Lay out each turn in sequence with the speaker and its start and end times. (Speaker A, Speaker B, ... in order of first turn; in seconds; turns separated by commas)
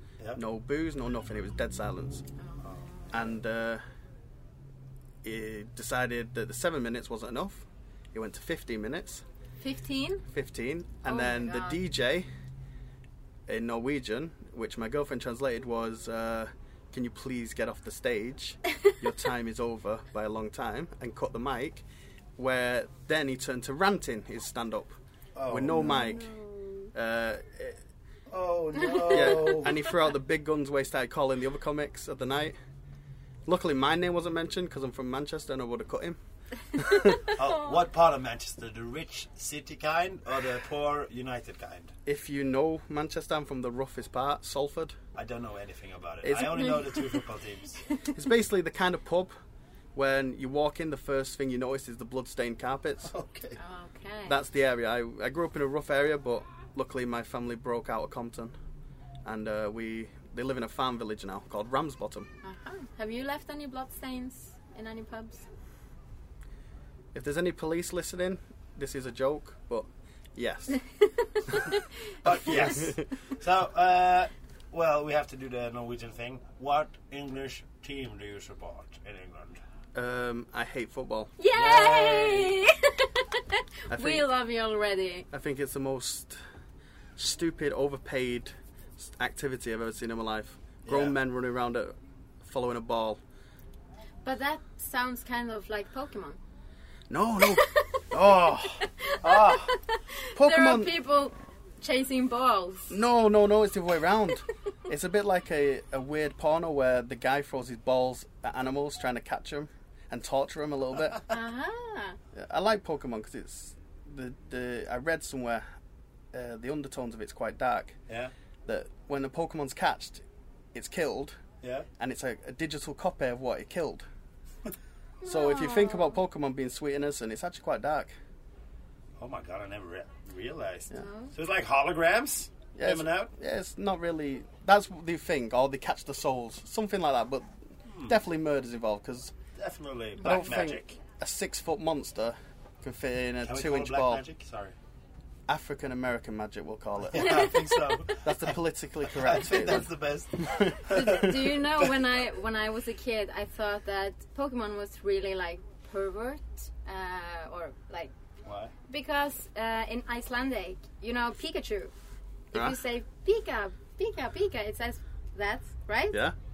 Speaker A: 0.3-2.2, Speaker B: 2.4-3.2, Speaker A: 3.1-3.8, Speaker A: 5.2-9.2, Speaker B: 9.6-10.2, Speaker A: 10.3-12.2, Speaker B: 11.1-11.8, Speaker A: 13.5-21.8, Speaker A: 22.4-24.9, Speaker C: 25.3-26.0, Speaker A: 25.5-26.3, Speaker B: 25.8-26.9, Speaker A: 26.9-27.8, Speaker C: 28.3-29.7, Speaker A: 29.0-32.5, Speaker A: 33.5-36.2, Speaker A: 36.8-37.3, Speaker C: 37.3-41.9, Speaker A: 42.0-44.9, Speaker C: 45.1-47.8, Speaker A: 46.2-47.0, Speaker A: 48.1-49.3, Speaker A: 49.9-53.1, Speaker C: 53.1-53.6, Speaker B: 53.6-54.4, Speaker A: 54.2-58.5, Speaker A: 59.2-62.3, Speaker B: 62.4-65.4, Speaker A: 67.1-70.8, Speaker B: 71.4-71.8, Speaker C: 72.2-79.6, Speaker A: 72.5-73.0, Speaker A: 79.9-81.3, Speaker B: 81.4-85.3, Speaker C: 81.5-82.5, Speaker A: 83.9-84.2, Speaker A: 85.3-86.4, Speaker A: 87.2-93.2, Speaker C: 90.8-91.2, Speaker B: 94.2-96.4, Speaker A: 97.1-99.7, Speaker B: 97.5-103.0, Speaker A: 100.4-100.9, Speaker A: 102.9-111.3, Speaker B: 111.3-112.2, Speaker A: 112.3-115.7, Speaker A: 116.3-118.0, Speaker A: 118.7-120.2, Speaker A: 120.7-121.4, Speaker A: 122.0-124.0, Speaker B: 125.2-126.2, Speaker A: 125.2-128.1, Speaker C: 129.2-133.3, Speaker B: 130.9-131.3, Speaker A: 132.8-137.5, Speaker C: 137.9-138.2, Speaker A: 138.1-139.3, Speaker C: 139.6-141.0, Speaker A: 140.2-144.2, Speaker B: 140.2-140.6, Speaker C: 143.4-144.8, Speaker A: 145.5-147.5, Speaker C: 147.1-148.6, Speaker B: 147.2-147.9, Speaker A: 148.2-151.4, Speaker C: 149.1-151.4, Speaker B: 150.9-158.1, Speaker C: 158.4-158.7, Speaker B: 158.9-161.9, Speaker B: 162.5-166.2